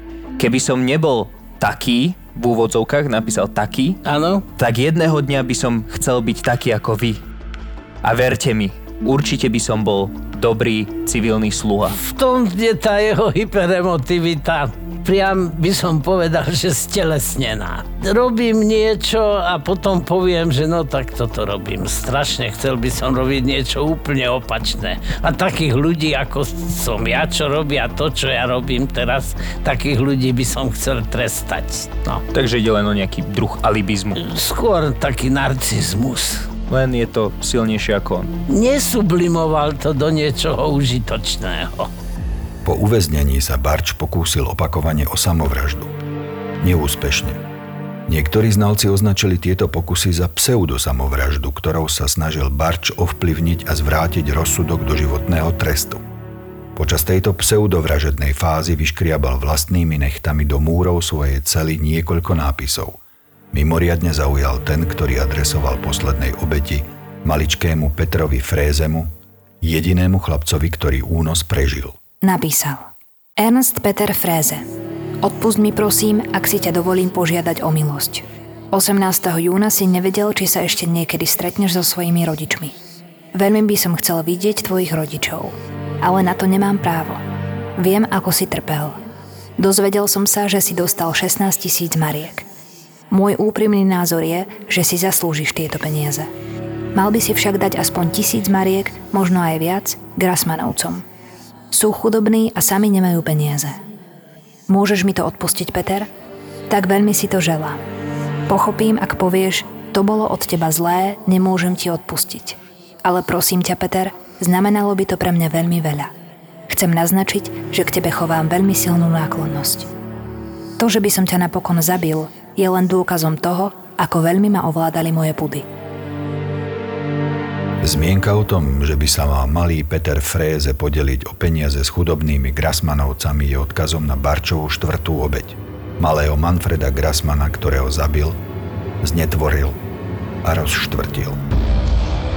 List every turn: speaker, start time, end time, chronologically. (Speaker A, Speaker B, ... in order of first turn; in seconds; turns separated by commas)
Speaker A: 0.4-4.0, Speaker B: 4.0-4.5, Speaker A: 4.6-7.2, Speaker A: 8.0-12.0, Speaker B: 11.9-32.2, Speaker A: 32.3-34.2, Speaker B: 34.2-36.5, Speaker A: 36.7-38.3, Speaker B: 38.5-41.9, Speaker C: 42.6-45.9, Speaker C: 46.6-47.4, Speaker C: 48.1-56.0, Speaker C: 56.8-63.0, Speaker C: 63.5-69.1, Speaker C: 69.6-72.0, Speaker D: 72.2-74.6, Speaker D: 75.2-82.8, Speaker D: 83.3-87.2, Speaker D: 87.8-89.0, Speaker D: 89.6-92.5, Speaker D: 93.1-96.3, Speaker D: 97.0-101.0, Speaker D: 101.7-103.8, Speaker D: 104.7-106.1, Speaker D: 106.7-107.8, Speaker D: 108.5-116.1, Speaker D: 116.7-119.9, Speaker D: 120.8-125.7, Speaker C: 127.8-138.4, Speaker C: 139.0-139.8, Speaker C: 140.4-141.4